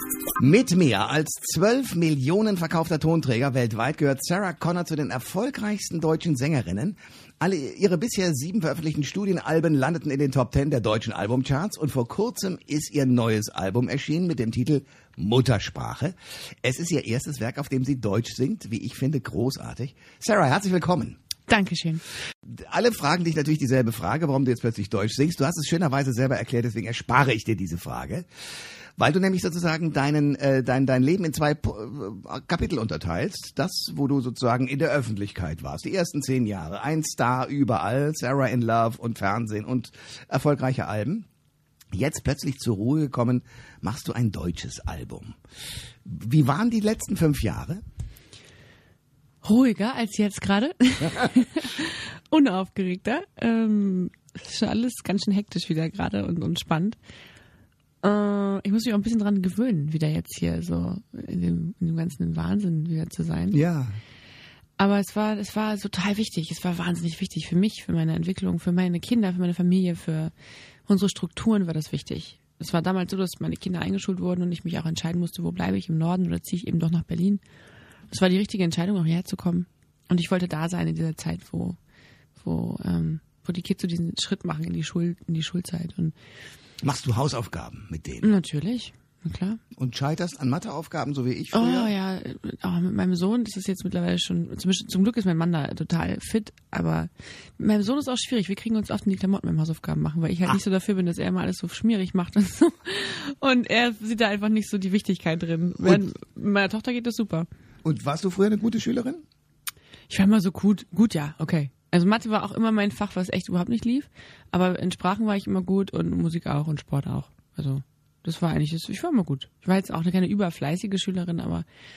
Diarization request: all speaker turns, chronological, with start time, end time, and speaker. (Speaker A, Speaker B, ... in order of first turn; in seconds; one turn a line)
Speaker A: 0.4-21.2
Speaker B: 21.5-22.0
Speaker A: 22.5-28.3
Speaker A: 29.0-41.3
Speaker A: 41.9-45.4
Speaker A: 46.0-47.8
Speaker B: 49.4-57.0
Speaker A: 51.0-51.4
Speaker B: 58.0-63.6
Speaker A: 63.5-64.0
Speaker B: 64.8-70.3
Speaker B: 70.9-77.4
Speaker B: 78.1-81.8
Speaker B: 82.4-86.2
Speaker A: 86.8-88.3
Speaker B: 88.2-89.6
Speaker A: 89.8-91.9
Speaker B: 91.5-107.5
Speaker A: 105.8-106.0
Speaker A: 107.8-109.2
Speaker B: 110.1-121.7